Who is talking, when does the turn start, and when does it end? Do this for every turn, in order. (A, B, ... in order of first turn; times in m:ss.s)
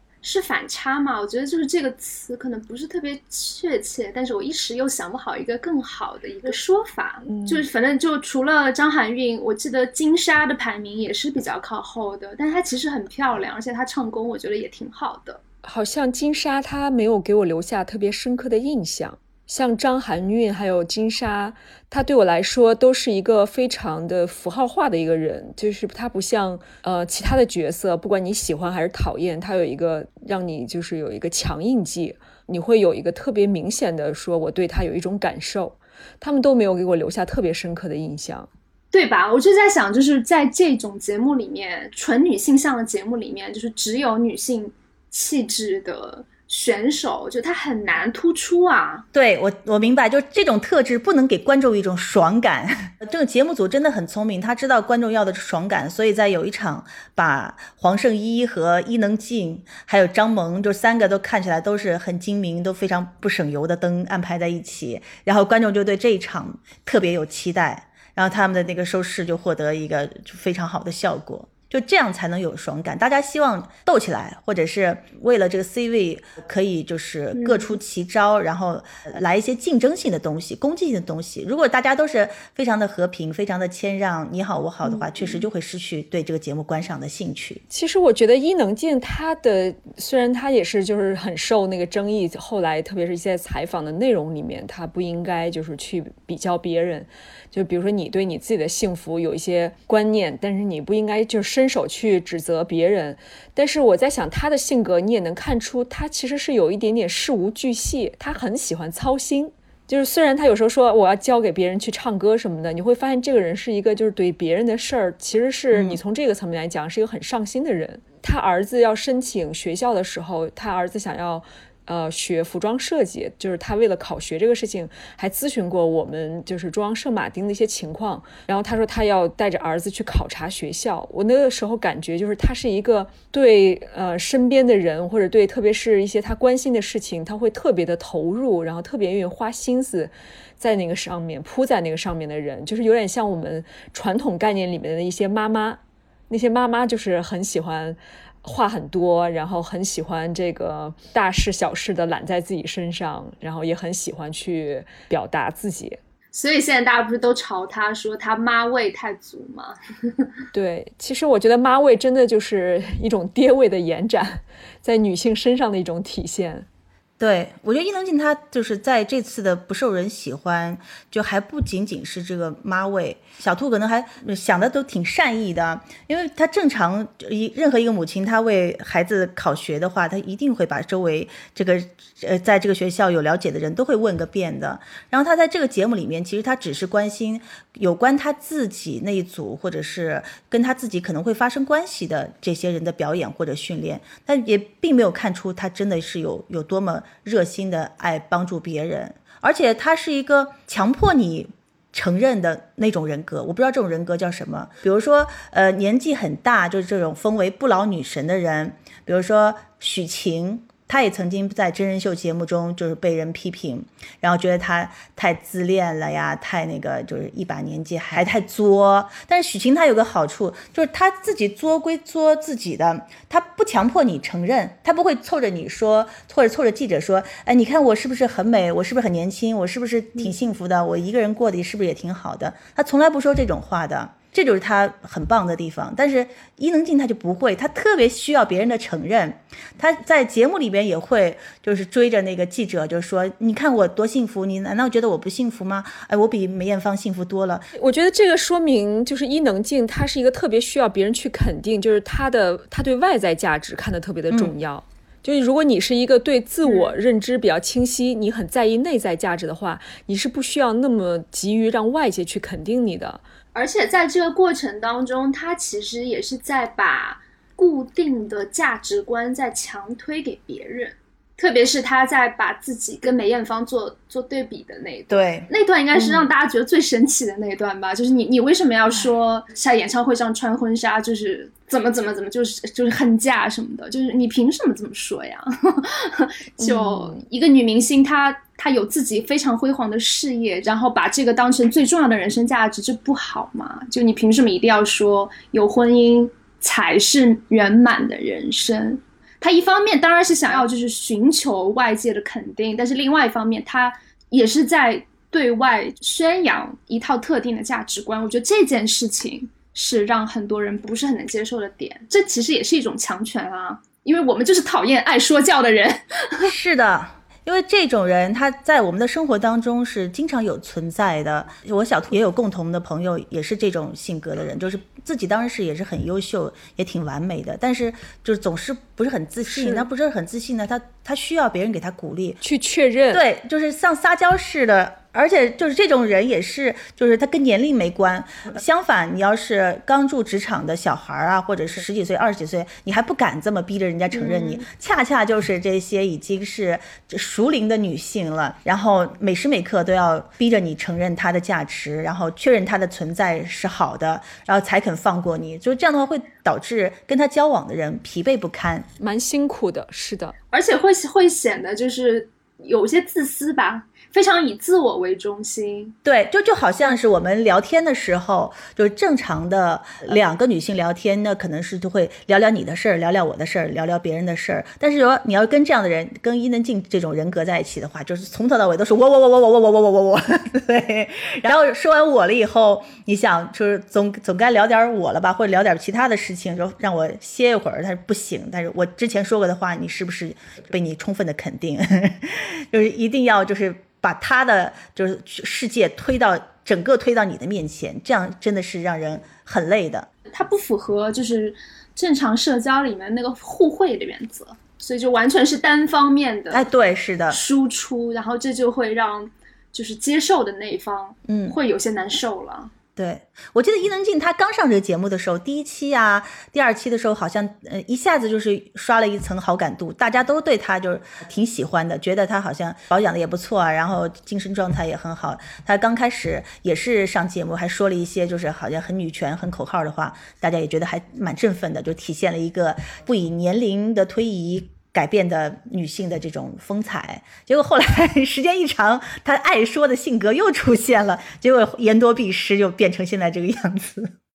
0:00.2-0:15.4 A
0:07.3-0:07.6 B
0:15.6-0:38.5 B
0:38.9-0:49.1 A
0:49.1-1:27.6 C
1:17.4-1:17.8 A
1:27.7-2:36.0 B
1:55.7-1:56.0 C
2:36.3-2:40.3 A
2:40.5-2:46.7 B
2:47.2-4:07.7 C
4:07.8-4:23.2 B
4:16.6-4:16.9 A
4:23.6-5:16.5 A
4:35.1-4:35.5 C
4:46.6-4:47.2 B
5:16.4-5:32.4 C
5:29.5-5:29.8 B
5:32.4-5:33.2 B
5:33.1-5:58.9 C
5:44.1-5:44.7 A
5:59.0-6:00.4 B
6:00.5-6:06.0 A
6:06.0-6:40.1 C
6:40.3-6:46.7 A
6:46.5-6:47.4 C
6:47.3-6:52.7 A
6:51.3-6:51.6 C
6:53.0-7:24.2 C